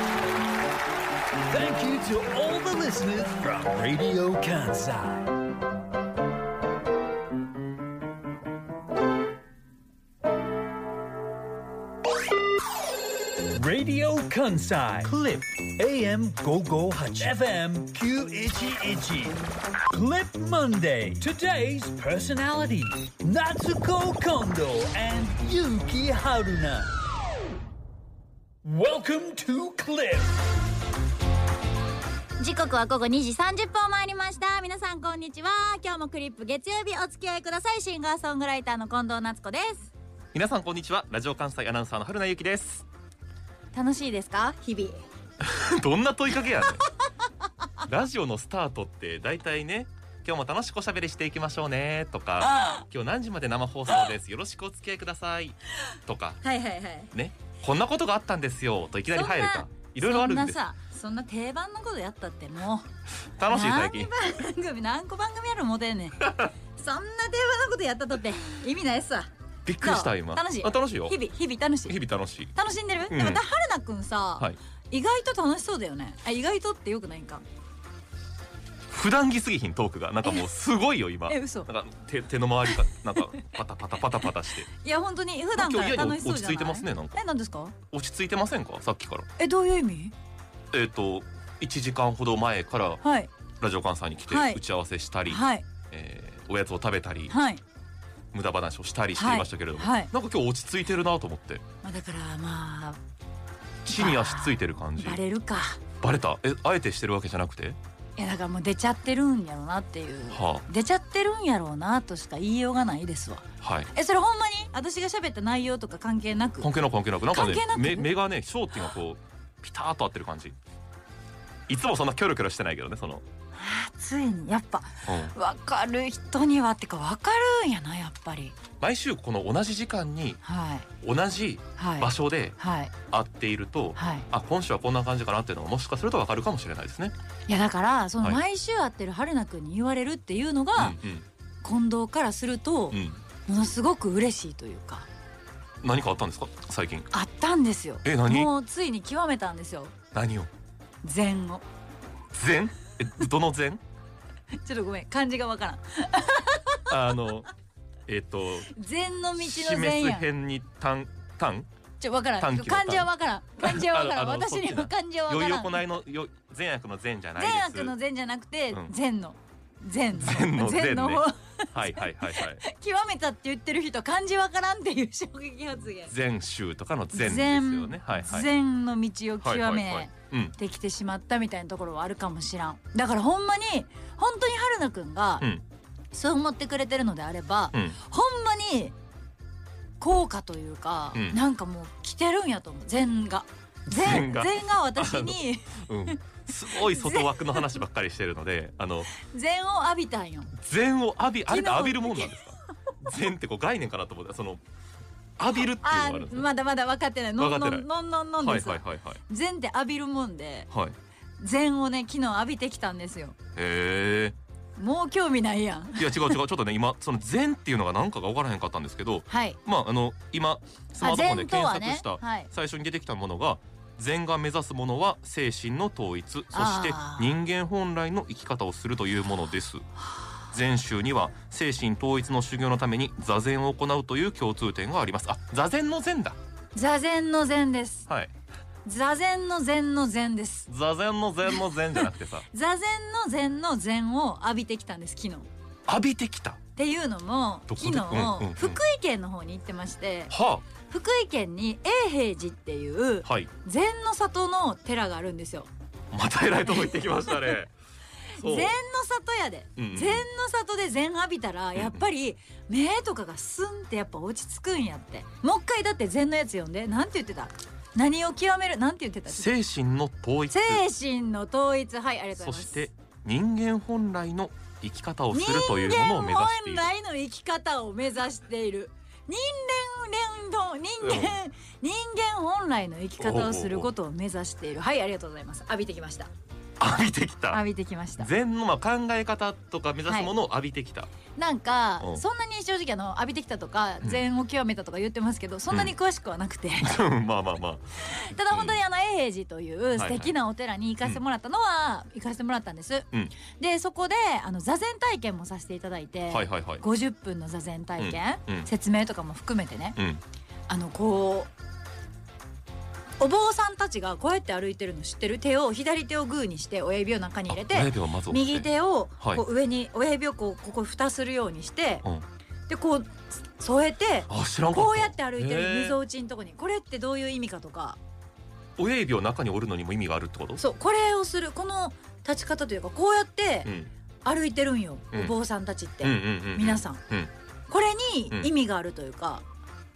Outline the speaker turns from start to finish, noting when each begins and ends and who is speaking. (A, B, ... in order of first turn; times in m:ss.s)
0:01.5-0:05.3 A
0:13.5-0:26.9 A
0:28.6-0:30.3 A
0:32.4-0:39.9 B
0:40.3-0:42.8 C
0:43.7-0:45.0 B
0:45.4-0:46.8 C
0:47.8-0:56.4 C
0:52.4-0:52.8 B
0:56.4-0:57.1 B
0:57.1-1:00.6 C
0:59.1-1:02.9 B
1:03.4-1:04.1 C
1:03.5-1:09.3 B
1:06.2-1:06.5 C
1:09.6-1:11.2 C
1:09.8-1:12.0 B
1:11.9-1:12.5 C
1:12.5-1:17.4 B
1:13.1-1:13.4 C
1:18.9-1:24.7 C
1:21.3-1:21.7 B
1:24.7-1:27.8 B
1:25.6-1:27.2 C
1:27.9-1:29.3 C
1:29.4-1:30.1 B
1:30.7-1:33.0 C
1:33.0-1:33.3 B
1:33.6-1:37.4 C
1:34.3-1:34.6 B
1:35.3-1:35.7 B
1:37.3-1:37.6 B
1:38.3-1:41.6 C
1:39.2-1:40.1 B
1:41.8-1:43.0 B
1:43.8-1:45.2 C
1:43.9-1:45.8 B
1:46.0-1:47.8 C
1:48.2-1:56.7 B
1:50.3-1:50.6 C
1:53.6-1:53.9 C
1:56.6-2:00.6 C
1:57.3-1:58.1 B
2:01.7-2:03.2 C
2:03.5-2:08.6 B
2:05.1-2:05.3 C
2:08.8-2:10.4 C
2:10.4-2:10.9 B
2:11.0-2:12.6 C
2:11.8-2:12.9 B
2:13.1-2:17.1 C
2:14.0-2:14.3 B
2:17.5-2:21.0 B
2:20.8-2:21.2 C
2:21.6-2:25.1 B
2:22.9-2:23.2 C
2:25.8-2:27.1 C
2:27.1-2:30.0 B
2:28.0-2:28.5 C
2:30.1-2:30.5 C
2:31.0-2:31.6 B
2:32.3-2:33.8 C
2:34.6-2:36.9 B
2:36.9-2:37.5 C
2:38.1-2:38.7 C
2:38.7-2:40.3 B
2:39.4-2:41.7 C
2:42.0-2:45.8 B
2:42.4-2:47.9 C
2:47.4-2:56.1 B
2:50.1-2:52.6 C
2:56.1-2:58.5 C
2:57.1-3:05.5 B
2:59.4-3:00.5 C
3:06.1-3:09.0 B
3:10.0-3:17.7 B
3:11.1-3:11.4 C
3:13.9-3:19.1 C
3:19.1-3:20.5 B
3:20.6-3:24.6 C
3:21.5-3:22.4 B
3:25.4-3:26.5 C
3:25.6-3:30.7 B
3:27.4-3:27.8 C
3:28.4-3:29.2 C
3:30.7-3:31.0 C
3:31.4-3:33.4 B
3:33.6-3:34.4 C
3:34.8-3:36.4 B
3:36.0-3:49.8 C
3:39.3-3:39.6 B
3:41.0-3:42.5 B
3:46.5-3:47.3 B
3:50.5-3:56.4 C
3:56.7-3:58.1 B
3:58.8-4:00.7 B
4:00.7-4:02.5 C
4:01.9-4:05.5 B
4:05.9-4:06.6 C
4:06.8-4:15.7 B
4:07.7-4:08.8 C
4:10.3-4:10.6 C
4:16.1-4:17.7 C
4:16.9-4:17.5 B
4:18.3-4:29.5 B
4:18.4-4:18.8 C
4:19.8-4:20.3 C
4:21.8-4:22.0 C
4:29.3-4:30.8 C
4:30.5-4:32.8 B
4:32.4-4:36.9 C
4:35.3-4:46.3 B
4:41.0-4:41.4 C
4:43.2-4:43.9 C
4:46.8-4:47.6 C
4:47.5-4:48.3 B
4:48.2-4:51.1 C
4:50.1-4:50.3 B
4:51.4-4:57.0 B
4:56.8-4:58.8 C
4:58.0-5:10.0 B
5:00.0-5:00.3 C
5:06.3-5:06.8 C
5:08.0-5:08.7 C
5:10.0-5:10.2 C
5:10.7-5:11.5 B
5:13.2-5:22.0 B
5:17.5-5:18.7 C
5:22.7-5:28.0 B
5:24.3-5:26.0 C
5:28.8-5:30.6 C
5:30.6-5:33.7 B
5:33.6-5:33.9 C
5:34.2-5:37.0 B
5:36.0-5:37.3 C
5:37.7-5:39.4 B